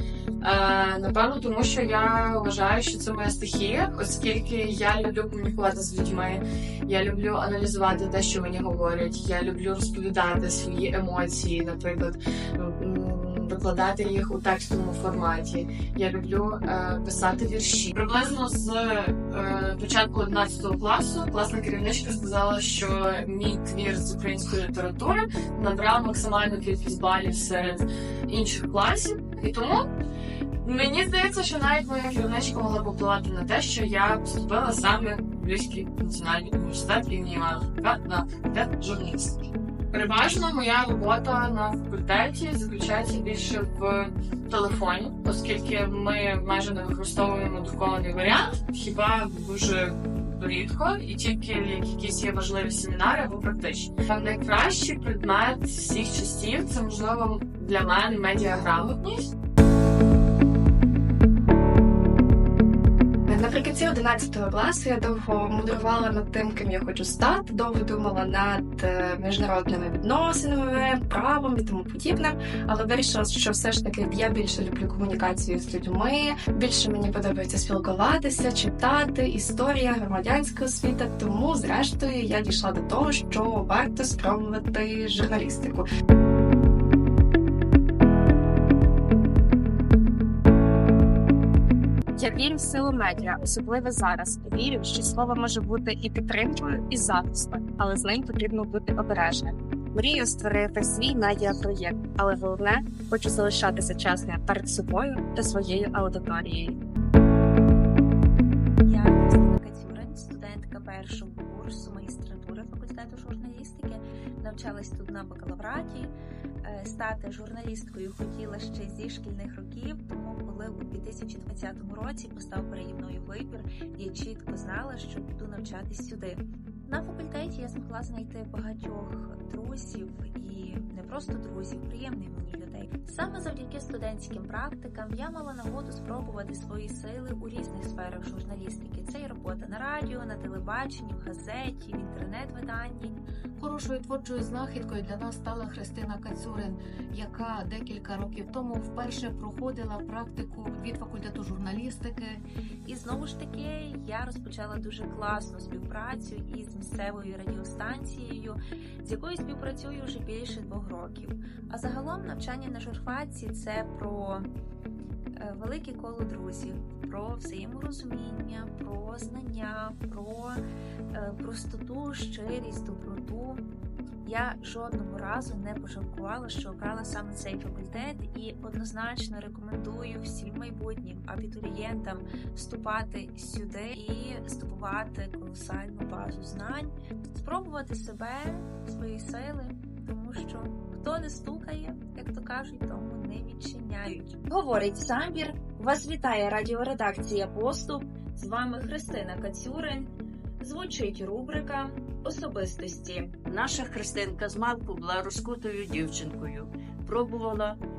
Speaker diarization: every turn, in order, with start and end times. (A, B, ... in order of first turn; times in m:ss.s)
0:00.4-0:29.8 A
0:30.6-0:39.4 A
0:39.9-0:59.2 A
1:03.3-1:25.8 B
1:32.2-1:46.8 C
1:48.8-2:23.2 D
2:23.6-2:32.4 E
2:32.9-2:44.5 D
2:45.4-2:50.6 D
2:51.1-2:53.6 D
2:54.2-3:14.5 D
3:14.5-3:20.1 F
3:20.6-3:23.2 F
3:23.5-3:27.7 G